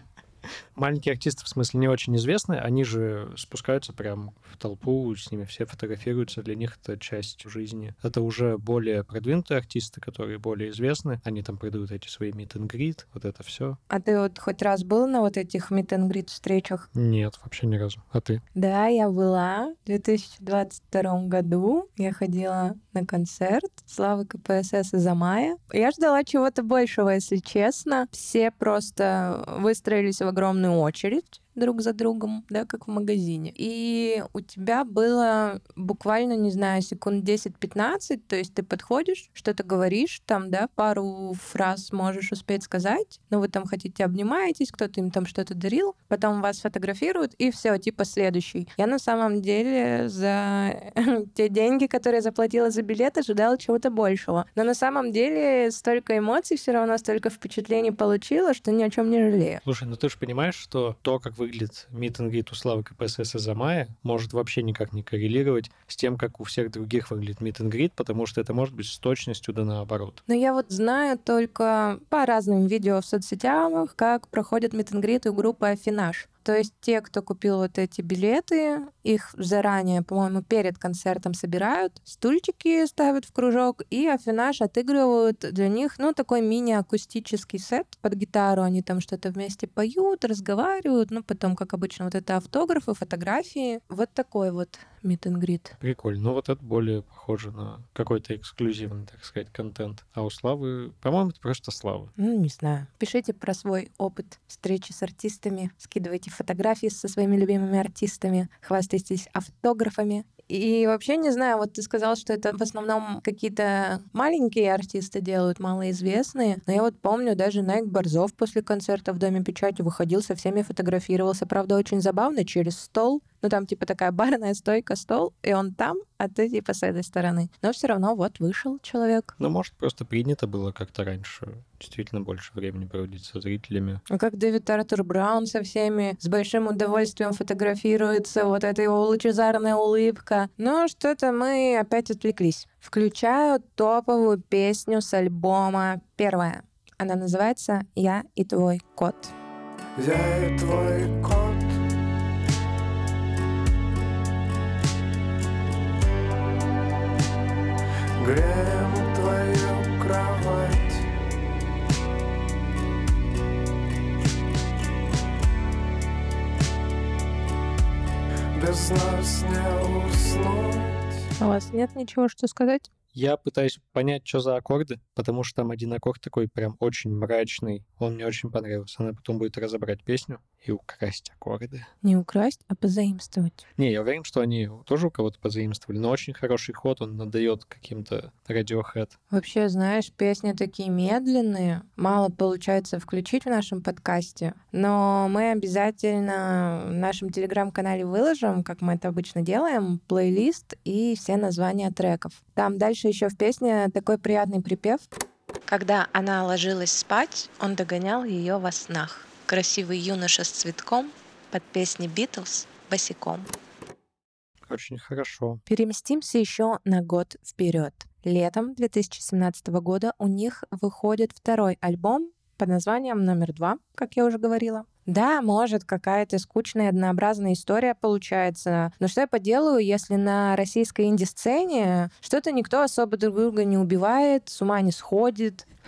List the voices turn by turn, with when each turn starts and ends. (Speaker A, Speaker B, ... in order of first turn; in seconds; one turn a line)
Speaker A: 0.7-13.8
Speaker B: 13.9-16.9
Speaker A: 16.9-18.4
Speaker B: 18.5-59.6
Speaker A: 59.6-70.2
Speaker B: 70.3-95.7
Speaker A: 95.8-102.1
Speaker B: 102.2-129.3
Speaker A: 129.4-134.0
Speaker B: 134.1-149.3
Speaker C: 149.9-151.8
Speaker C: 158.2-161.1
Speaker C: 168.5-171.1
Speaker B: 171.4-172.9
Speaker A: 173.1-181.9
Speaker B: 182.0-183.6
Speaker A: 183.8-189.1
Speaker B: 189.3-205.1
Speaker B: 205.7-213.5
Speaker A: 214.7-215.6
Speaker B: 215.7-235.7